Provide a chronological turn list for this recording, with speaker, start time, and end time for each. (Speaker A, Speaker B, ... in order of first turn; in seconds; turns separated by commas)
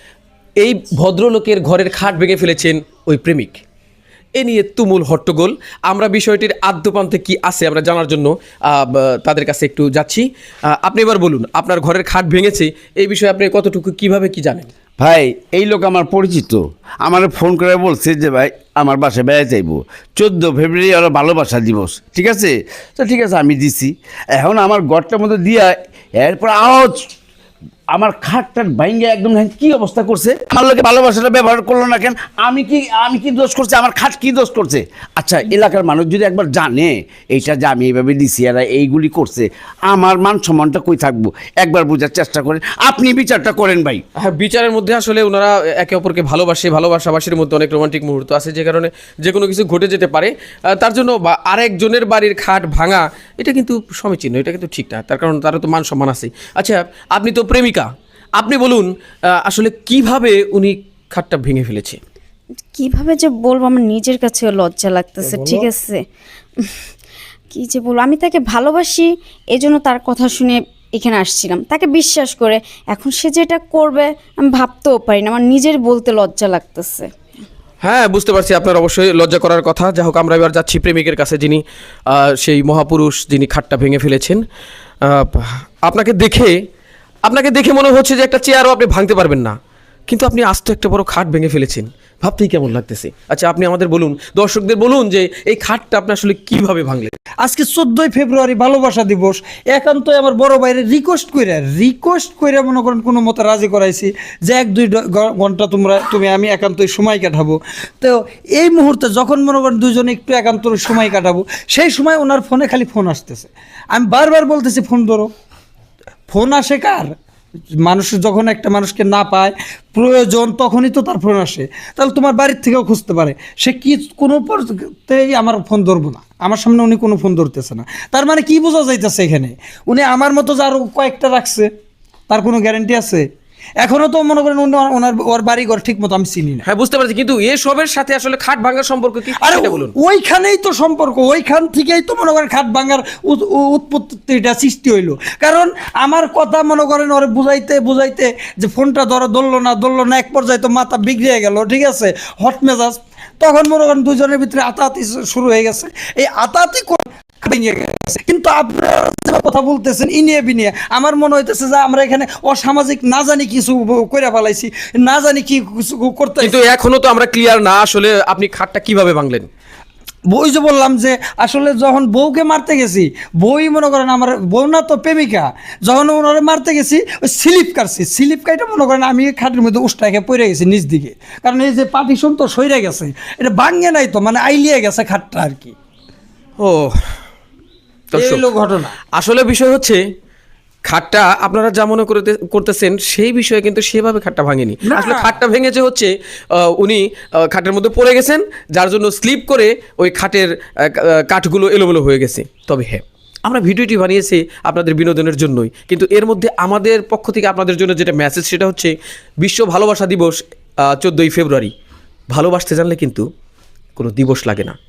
Speaker A: 0.6-3.6, Speaker A: 4.3-14.7, Speaker B: 15.0-27.1, Speaker B: 27.9-44.0, Speaker A: 44.2-62.0, Speaker C: 62.8-66.0, Speaker D: 65.2-65.7, Speaker C: 67.5-77.1, Speaker A: 77.8-84.4, Speaker A: 85.0-86.6, Speaker A: 87.2-89.5, Speaker A: 90.1-97.1, Speaker D: 97.4-115.3, Speaker D: 116.3-117.1, Speaker D: 117.8-131.7, Speaker D: 132.3-133.3, Speaker D: 133.8-136.6, Speaker A: 136.7-139.9, Speaker D: 139.4-166.7, Speaker A: 166.4-169.5, Speaker D: 170.3-185.8, Speaker A: 186.6-187.0, Speaker A: 188.1-188.4, Speaker D: 188.1-188.9, Speaker A: 189.1-190.0, Speaker A: 190.8-211.7, Speaker D: 194.9-195.3, Speaker A: 212.3-213.2, Speaker A: 214.0-214.8